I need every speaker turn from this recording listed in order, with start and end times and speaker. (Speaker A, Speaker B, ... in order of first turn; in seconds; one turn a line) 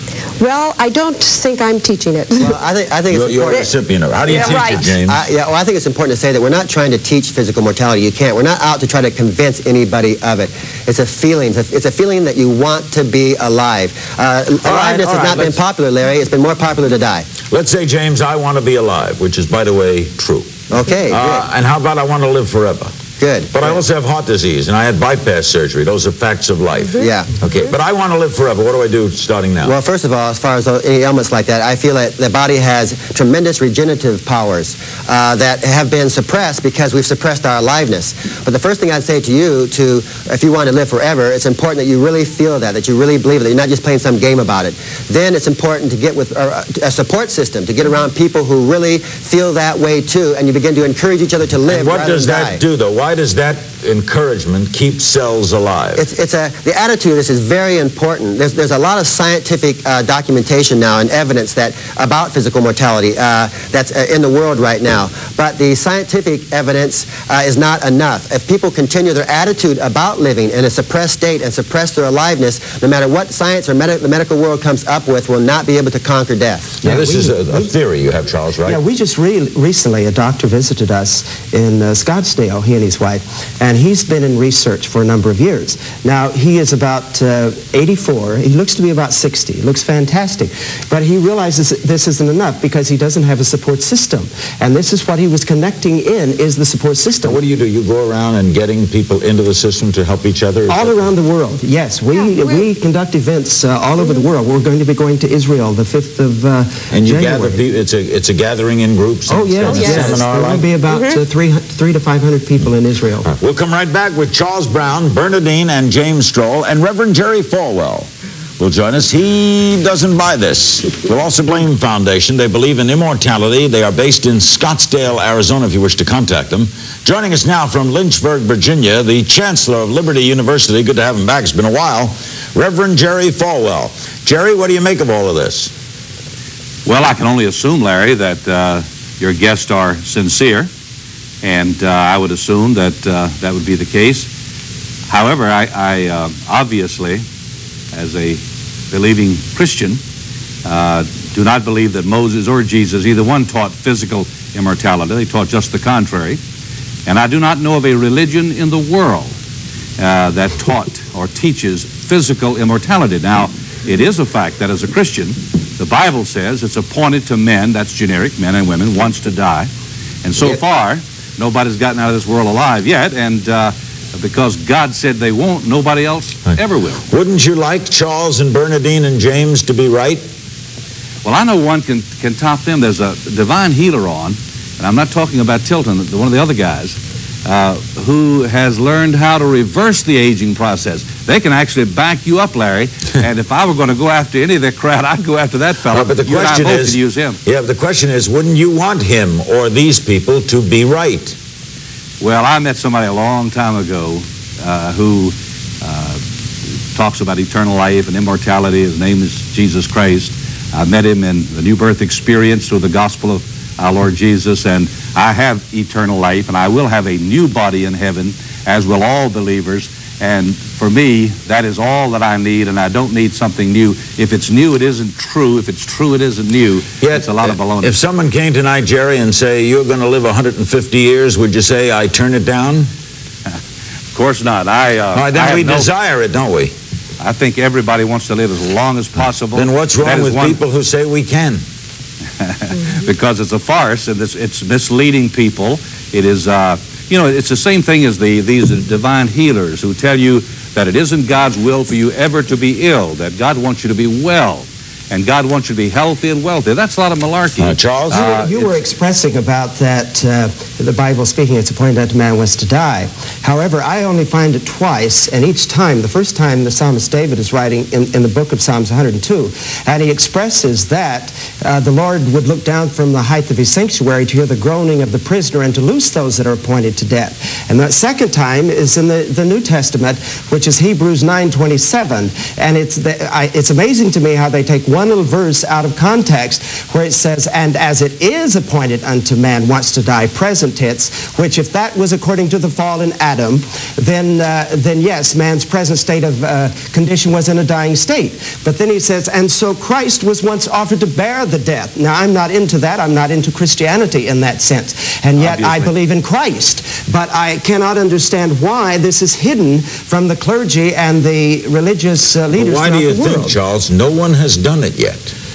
Speaker A: 0.4-2.6
Speaker B: 2.4-3.7
Speaker C: 3.1-5.2
Speaker A: 4.2-4.9
Speaker B: 5.0-17.2
Speaker C: 14.6-15.6
Speaker C: 17.5-20.6
Speaker B: 20.7-21.4
Speaker C: 21.1-22.9
Speaker B: 23.2-23.8
Speaker C: 23.5-29.7
Speaker B: 27.0-27.3
Speaker B: 29.6-52.6
Speaker C: 51.7-56.0
Speaker B: 56.0-76.7
Speaker D: 76.8-77.7
Speaker C: 76.8-78.8
Speaker D: 78.6-97.4
Speaker C: 97.2-101.1
Speaker D: 100.7-107.6
Speaker A: 102.1-102.7
Speaker C: 106.9-110.7
Speaker D: 109.3-113.3
Speaker A: 109.7-110.2
Speaker A: 110.9-111.2
Speaker C: 113.2-135.7
Speaker E: 136.8-140.7
Speaker E: 141.4-144.3
Speaker E: 145.1-147.2
Speaker E: 147.9-148.4
Speaker E: 148.9-150.0
Speaker E: 150.6-156.4
Speaker E: 157.1-159.3
Speaker E: 160.0-169.7
Speaker E: 170.2-177.0
Speaker C: 176.4-180.2
Speaker E: 181.2-197.4
Speaker C: 195.9-201.3
Speaker E: 202.2-206.2
Speaker E: 206.9-227.9
Speaker C: 227.0-232.9
Speaker E: 234.1-235.9
Speaker C: 235.1-236.7
Speaker E: 237.2-240.6
Speaker C: 239.5-241.6
Speaker E: 242.4-258.7
Speaker C: 257.6-258.4
Speaker D: 258.1-313.5
Speaker E: 305.4-305.9
Speaker C: 312.5-315.3